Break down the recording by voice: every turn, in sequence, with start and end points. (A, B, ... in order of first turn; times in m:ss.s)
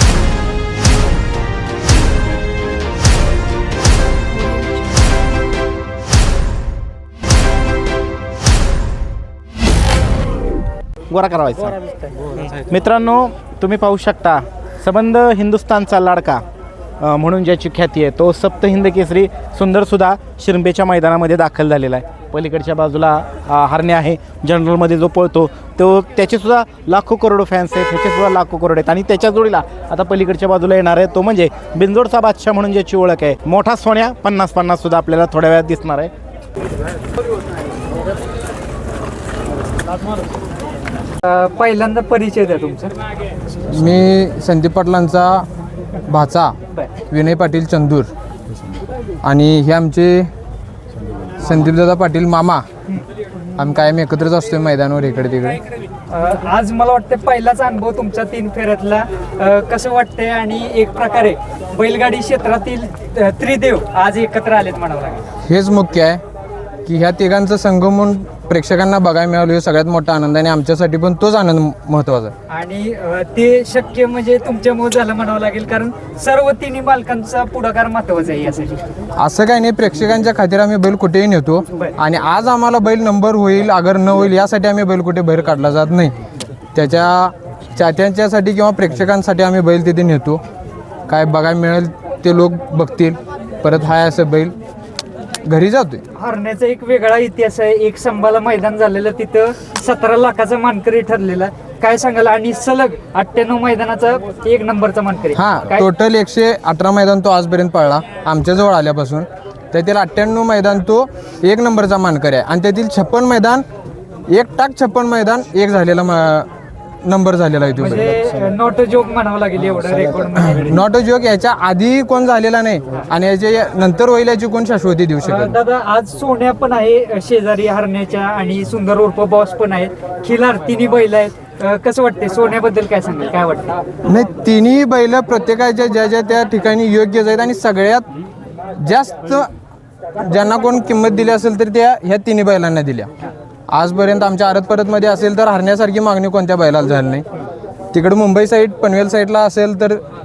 0:11.1-0:11.8 A
0:12.5-0:16.4 A
0:17.0-0:36.1 A
0:41.2-0:43.0 B
0:43.7-0:45.4 C
0:46.1-0:46.5 C
0:47.1-0:48.1 C
0:49.2-0:50.3 C
0:51.4-0:52.6 C
0:53.6-0:55.6 C
0:56.1-1:05.2 B
1:05.4-1:06.2 C
1:06.8-1:12.3 C
1:12.5-1:18.8 B
1:19.2-1:26.2 C
1:26.7-1:30.4 C
1:31.1-1:34.5 C
1:35.4-1:36.0 C
1:36.2-1:45.8 B
1:45.3-1:53.6 C
1:54.3-1:56.5 C
1:57.0-1:58.1 C
1:57.8-2:00.8 B
2:00.6-2:05.5 C
2:05.2-2:13.8 B
2:14.0-2:18.1 C
2:18.8-2:19.5 C
2:20.2-2:23.1 C
2:23.7-2:27.2 C
2:27.9-2:30.0 C